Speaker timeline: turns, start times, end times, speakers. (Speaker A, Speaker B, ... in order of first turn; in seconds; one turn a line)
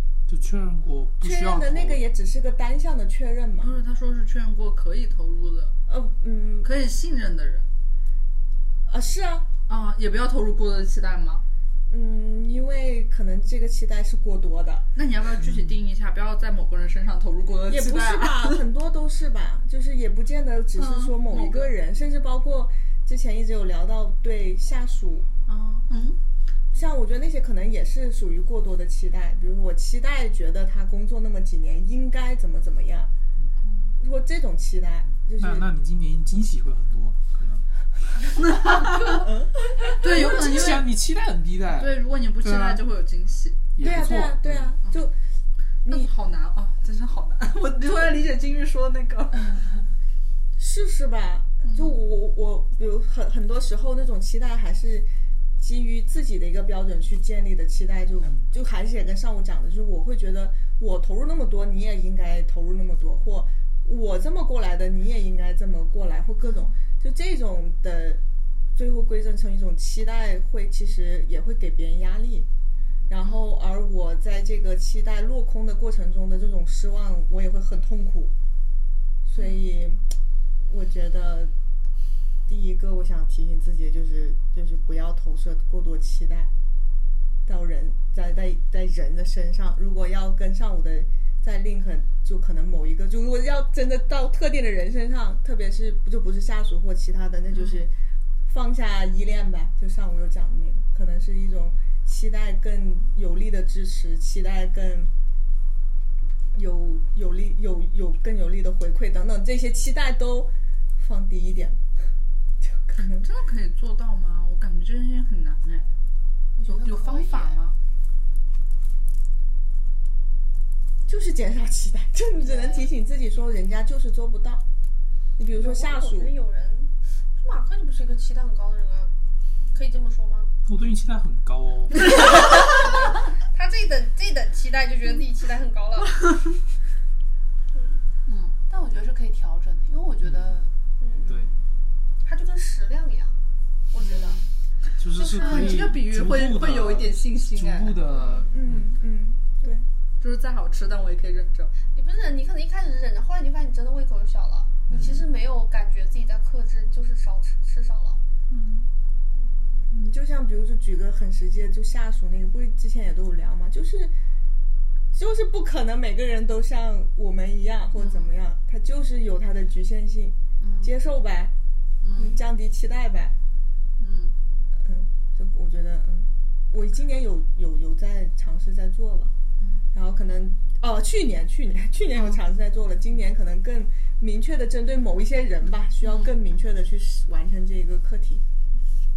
Speaker A: 0.3-2.0
Speaker B: 1.2-3.7
Speaker C: 3.6-5.7
Speaker B: 5.9-6.7
Speaker C: 6.6-7.7
Speaker B: 8.9-9.5
Speaker C: 9.7-11.4
Speaker B: 11.9-14.9
Speaker C: 14.9-18.6
Speaker A: 15.4-15.8
Speaker B: 17.7-25.3
Speaker C: 20.8-21.7
Speaker C: 25.5-26.2
Speaker B: 26.7-33.1
Speaker C: 33.6-33.9
Speaker B: 34.0-35.7
Speaker A: 35.1-37.6
Speaker C: 38.3-39.3
Speaker B: 38.6-40.7
Speaker C: 40.0-40.9
Speaker A: 40.0-42.8
Speaker C: 41.7-43.7
Speaker A: 43.7-44.7
Speaker B: 43.8-45.1
Speaker B: 45.8-46.1
Speaker C: 45.9-49.6
Speaker B: 50.6-68.2
Speaker C: 51.6-52.0
Speaker B: 68.7-72.5
Speaker B: 73.1-78.3
Speaker B: 79.2-80.0
Speaker B: 80.7-81.5
Speaker B: 82.5-86.5
Speaker B: 87.5-97.9
Speaker C: 97.5-97.8
Speaker B: 98.5-105.1
Speaker B: 106.5-111.8
Speaker B: 112.6-113.3
Speaker C: 113.1-115.9
Speaker D: 116.6-117.6
Speaker C: 116.7-117.7
Speaker B: 121.0-124.6
Speaker E: 122.5-122.9
Speaker B: 125.4-126.3
Speaker E: 125.5-129.1
Speaker E: 129.7-130.5
Speaker A: 130.7-132.1
Speaker E: 132.2-136.4
Speaker E: 137.7-138.0
Speaker C: 138.2-138.5
Speaker D: 138.7-141.5
Speaker A: 140.2-140.6
Speaker E: 141.0-141.3
Speaker E: 142.2-143.3
Speaker E: 143.9-144.4
Speaker C: 144.0-144.4
Speaker A: 145.0-148.9
Speaker E: 145.1-145.9
Speaker C: 145.4-148.0
Speaker E: 148.1-148.5
Speaker B: 148.4-149.8
Speaker C: 150.2-151.7
Speaker E: 151.9-158.2
Speaker A: 154.9-155.3
Speaker C: 158.5-158.8
Speaker B: 159.9-164.1
Speaker B: 165.1-171.5
Speaker C: 167.9-168.3
Speaker C: 170.6-170.9
Speaker C: 172.0-172.4
Speaker B: 172.1-173.3
Speaker C: 174.0-174.3
Speaker B: 174.8-179.3
Speaker B: 179.9-188.4
Speaker C: 182.1-182.4
Speaker C: 186.0-186.3